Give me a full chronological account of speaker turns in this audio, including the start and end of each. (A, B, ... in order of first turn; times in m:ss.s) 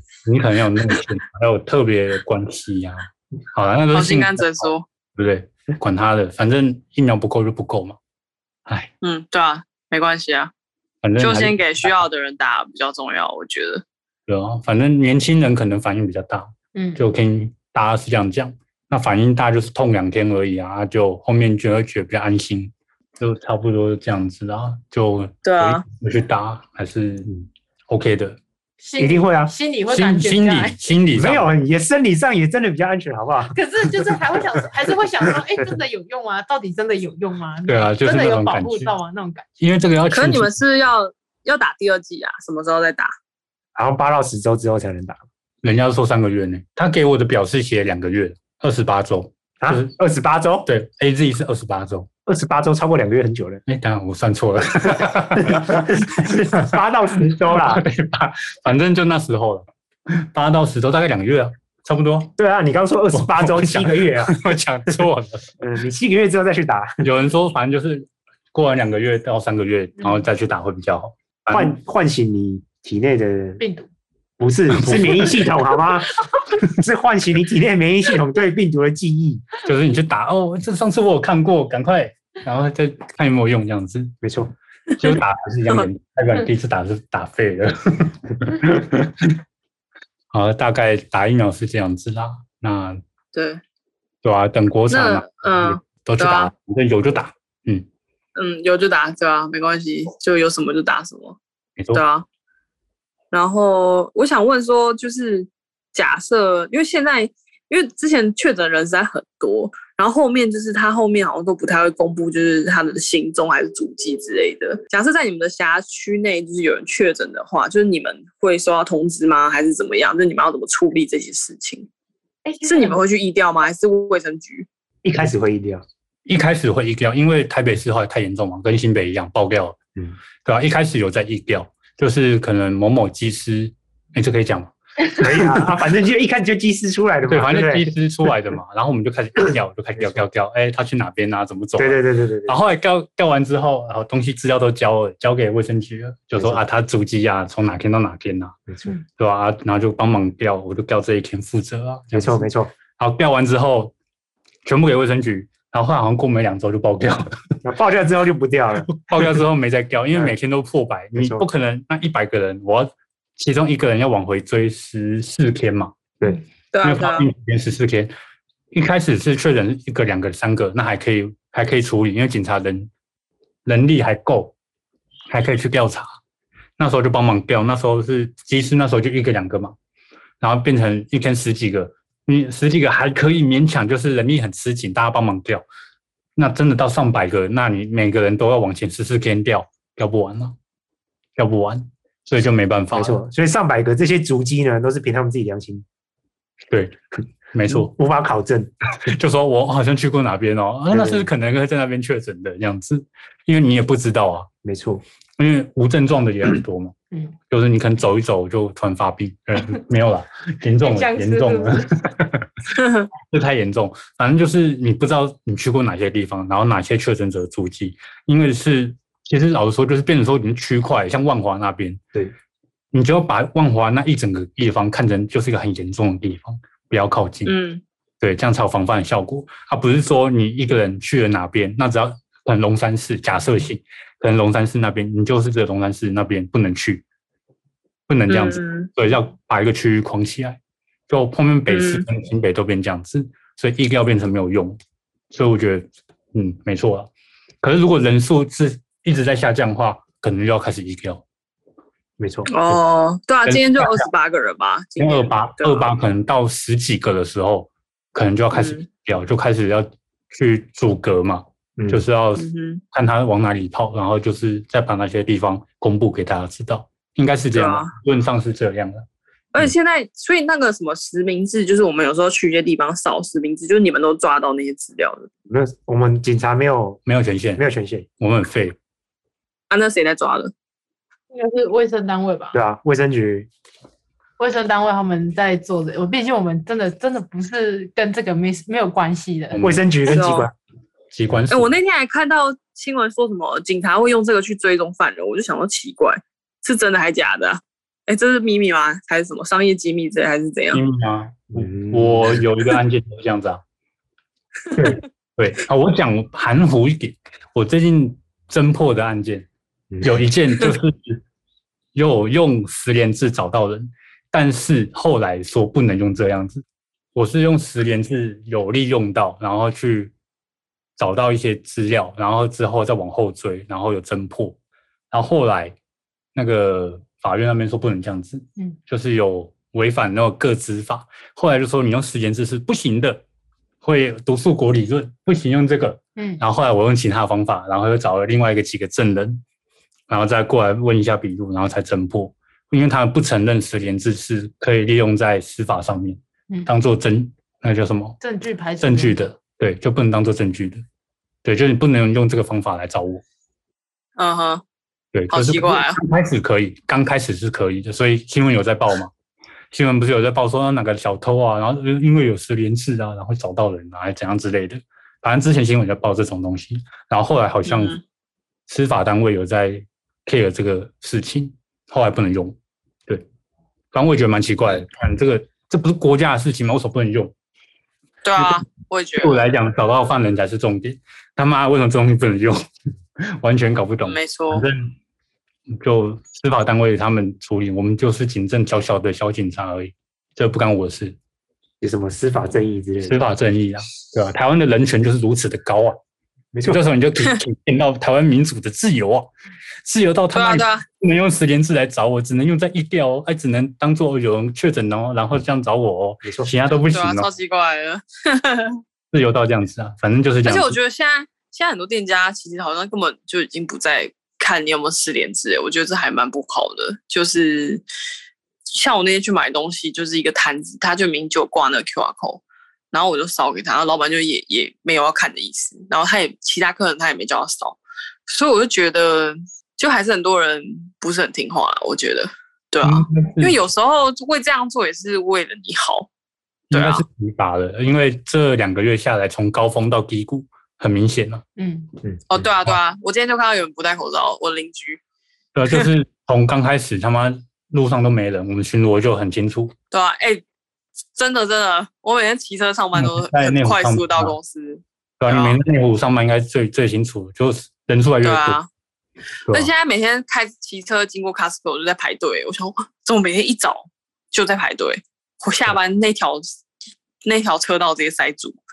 0:00.2-0:08.0 A
0:03.9-0:04.8 B
0:09.0-0:10.5 B
0:11.0-0:12.0 A
0:11.2-0:13.8 B
0:14.3-0:27.3 A
0:16.7-0:17.0 C
0:25.4-0:25.8 B
0:27.9-0:28.4 A
0:28.8-0:30.8 C
0:29.0-0:29.5 D
0:29.9-0:31.5 A
0:31.1-0:34.2 D
0:33.5-0:39.4 C
0:37.6-0:38.9 A
0:39.6-0:40.5 A
0:40.1-0:43.1 B
0:43.7-0:45.2 D
0:45.6-0:49.9 A
0:49.6-0:50.7 D
0:50.6-0:52.1 A
0:52.3-0:53.6 D
0:53.7-0:56.8 A
0:55.4-0:57.8 D
0:57.4-1:02.3 A
1:02.4-1:05.0 D
1:03.1-1:05.5 A
1:05.6-1:07.0 D
1:07.0-1:11.7 A
1:11.5-1:13.6 D
1:13.6-1:13.9 C
1:14.4-1:19.6 D
1:14.8-1:15.5 A
1:19.6-1:24.1 A
1:24.2-1:24.5 D
1:25.0-1:29.4 A
1:30.3-1:33.0 A
1:33.3-1:33.6 B
1:34.2-1:37.8 A
1:34.9-1:36.5 B
1:38.3-1:41.4 B
1:41.8-1:42.0 A
1:41.9-1:42.2 B
1:43.3-2:01.9 B
2:02.4-2:03.0 C
2:02.6-2:04.7 B
2:05.0-2:05.8 D
2:06.2-2:09.8 A
2:10.4-2:15.6 A
2:15.2-2:18.3 D
2:17.3-2:33.9 A
2:20.0-2:20.2 D
2:21.8-2:22.5 D
2:28.7-2:28.9 D
2:32.1-2:32.7 D
2:34.6-2:37.5 A
2:37.6-2:39.1 D
2:39.0-2:46.0 A
2:41.1-2:41.4 D
2:46.7-2:47.3 B
2:46.8-2:48.1 A
2:48.7-2:52.9 A
2:53.6-2:54.5 A
2:55.3-2:56.1 A
2:56.8-2:59.7 A
3:00.4-3:05.6 A
3:06.4-3:10.6 A
3:11.4-3:13.2 A
3:12.9-3:15.8 D
3:16.7-3:17.0 A
3:17.5-3:17.9 A
3:17.7-3:18.7 D
3:19.0-3:24.5 A
3:20.9-3:21.3 D
3:24.6-3:25.0 D
3:25.4-3:26.9 A
3:27.5-3:42.0 A
3:30.8-3:31.9 C
3:32.8-3:33.1 B
3:42.9-3:47.5 A
3:47.4-3:47.8 B
3:48.2-3:57.0 A
3:58.1-4:00.6 A
3:58.3-3:58.9 B
4:01.1-4:04.8 A
4:01.7-4:02.0 B
4:05.3-4:07.1 A
4:07.6-4:11.2 A
4:12.2-4:12.7 D
4:12.5-4:15.9 B
4:13.4-4:14.1 A
4:15.0-4:29.0 A
4:18.5-4:18.8 B
4:22.4-4:22.8 B
4:27.5-4:27.9 B
4:29.5-4:35.3 B
4:35.5-4:37.0 D
4:37.0-4:37.6 A
4:37.6-4:38.0 D
4:38.2-4:38.8 A
4:39.7-4:40.5 B
4:41.3-4:42.6 C
4:42.5-4:43.5 D
4:44.4-4:49.6 C
4:49.5-4:50.2 A
4:49.6-4:50.5 D
4:50.0-4:50.5 B
4:51.1-4:51.7 A
4:51.5-5:00.8 B
5:00.7-5:03.6 A
5:01.5-5:02.4 D
5:04.7-5:09.5 A
5:10.0-5:11.2 A
5:11.9-5:16.6 A
5:17.1-5:20.1 A
5:21.0-5:24.6 A
5:25.1-5:25.8 A
5:26.3-5:33.2 A
5:33.8-5:39.4 A
5:36.2-5:36.4 C
5:40.1-5:48.2 A
5:48.2-5:49.3 C
5:48.8-5:50.8 A
5:51.4-5:53.2 A
5:54.2-5:54.6 B
5:55.1-5:59.1 A
5:55.3-5:56.0 B
5:59.7-6:08.0 A
6:07.6-6:08.0 B
6:08.7-6:13.2 A
6:13.9-6:17.3 A
6:18.2-6:19.4 B
6:19.2-6:22.6 A
6:23.2-6:24.9 A
6:24.0-6:24.7 B
6:25.8-6:31.2 A
6:31.8-6:33.2 D
6:33.0-6:36.0 A
6:36.5-6:36.8 D
6:36.7-6:39.3 A
6:39.8-6:47.2 A
6:40.3-6:40.8 B
6:46.2-6:46.5 D
6:46.9-6:48.8 B
6:49.1-6:50.8 A
6:50.4-6:57.8 B
6:58.6-7:16.1 B
7:12.8-7:13.5 A
7:16.7-7:17.0 B
7:16.7-7:21.4 A
7:21.6-7:21.9 C
7:22.3-7:25.0 B
7:22.4-7:22.8 A
7:25.5-7:29.7 A
7:29.9-7:30.4 B
7:31.1-7:35.6 B
7:32.9-7:34.4 A
7:35.2-7:38.6 A
7:38.2-7:38.7 B
7:39.5-7:46.6 B
7:47.2-7:48.6 B